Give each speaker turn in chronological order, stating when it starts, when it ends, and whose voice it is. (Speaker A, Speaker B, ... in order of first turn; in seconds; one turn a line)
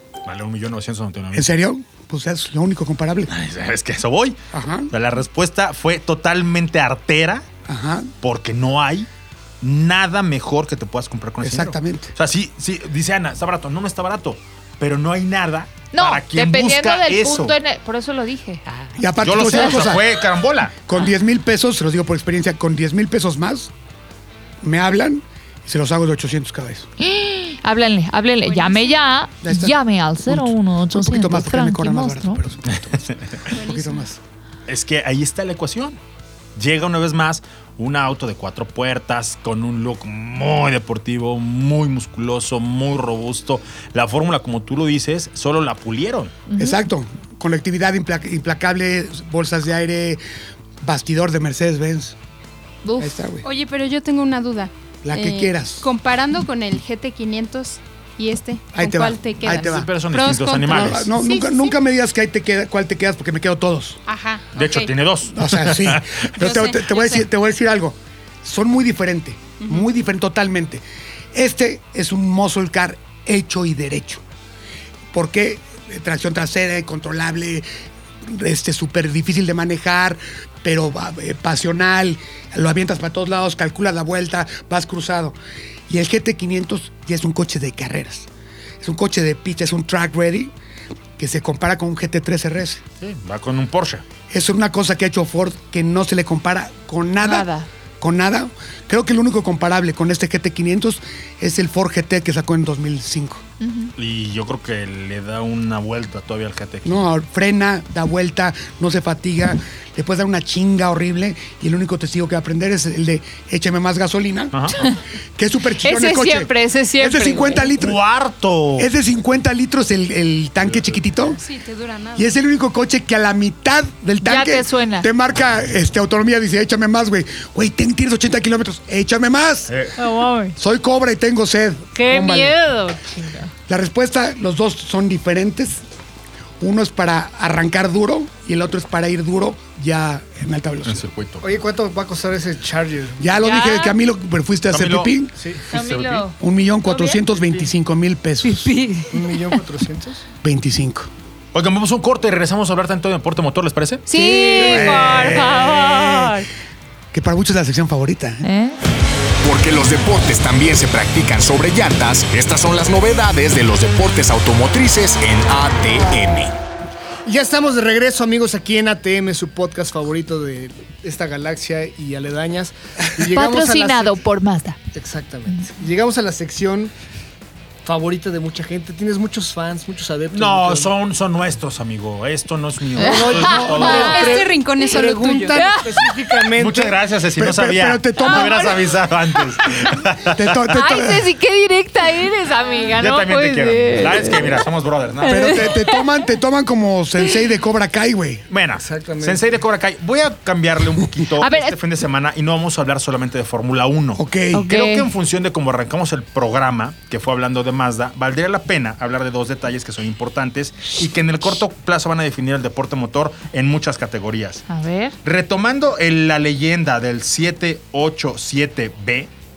Speaker A: 0.3-1.5
Speaker B: 1.3-3.3
Speaker A: 3.3-4.4
Speaker B: 4.5-4.9
Speaker A: 4.9-7.5
Speaker B: 7.7-8.1
Speaker A: 8.2-9.1
Speaker A: 9.6-17.6
Speaker B: 11.4-12.1
Speaker C: 15.9-19.0
Speaker B: 19.0-20.1
Speaker A: 19.2-20.8
Speaker B: 20.9-23.7
Speaker B: 24.6-26.9
Speaker C: 27.0-32.4
Speaker D: 28.4-29.0
Speaker B: 29.4-34.2
Speaker A: 32.7-33.4
Speaker D: 33.5-34.0
Speaker A: 34.7-36.0
Speaker A: 36.6-46.4
Speaker C: 46.5-46.8
Speaker B: 46.6-50.2
Speaker B: 50.8-52.2
Speaker C: 52.9-53.1
Speaker B: 53.0-53.5
Speaker D: 53.4-61.8
Speaker B: 55.0-55.9
Speaker B: 58.7-60.0
Speaker A: 59.5-61.1
Speaker B: 60.7-64.0
Speaker D: 64.1-64.9
Speaker A: 64.5-66.3
Speaker B: 65.3-70.8
Speaker D: 66.4-67.2
Speaker B: 71.3-74.2
Speaker B: 75.1-77.7
Speaker B: 78.2-85.4
Speaker B: 85.9-88.3
Speaker B: 88.8-90.5
Speaker B: 91.2-92.8
Speaker A: 93.0-94.0
Speaker B: 94.3-97.5
Speaker C: 97.2-97.7
Speaker B: 98.0-103.4
Speaker C: 103.6-103.9
Speaker A: 104.0-107.0
Speaker B: 106.8-114.7
Speaker B: 115.4-118.0
Speaker C: 115.8-117.7
Speaker A: 117.8-118.9
Speaker B: 118.8-121.4
Speaker A: 120.7-121.3
Speaker D: 121.3-122.3
Speaker B: 122.2-129.7
Speaker C: 124.2-125.1
Speaker A: 129.7-129.9
Speaker C: 130.0-130.6
Speaker B: 130.6-132.6
Speaker C: 131.9-133.5
Speaker B: 133.7-135.8
Speaker B: 136.6-141.1
Speaker A: 140.8-141.5
Speaker E: 141.4-143.3
Speaker B: 143.2-145.3
Speaker C: 143.4-144.0
Speaker A: 144.7-145.2
Speaker A: 145.7-146.2
Speaker C: 145.7-146.3
Speaker B: 146.4-148.7
Speaker C: 146.9-147.2
Speaker C: 148.4-149.6
Speaker E: 149.1-150.2
Speaker B: 150.4-151.1
Speaker A: 151.5-156.3
Speaker C: 154.1-156.5
Speaker E: 154.6-155.1
Speaker B: 157.1-158.4
Speaker C: 158.4-158.8
Speaker F: 159.4-166.6
Speaker E: 167.2-174.2
Speaker C: 173.3-174.8
Speaker E: 174.9-176.9
Speaker E: 177.8-180.9
Speaker A: 180.3-184.3
Speaker E: 183.0-187.0
Speaker C: 183.0-184.4
Speaker B: 183.4-184.2
Speaker D: 183.7-185.8
Speaker C: 185.6-186.3
Speaker A: 186.6-190.5
Speaker B: 187.4-188.8
Speaker C: 188.2-188.7
Speaker C: 189.6-189.9
Speaker B: 190.2-191.3
Speaker C: 190.7-194.6
Speaker A: 193.0-195.6
Speaker C: 195.2-196.1
Speaker B: 195.2-198.4
Speaker A: 198.5-214.7
Speaker E: 198.8-199.6
Speaker C: 201.4-201.8
Speaker B: 204.2-204.7
Speaker C: 204.5-205.1
Speaker C: 214.7-215.2
Speaker A: 215.2-219.3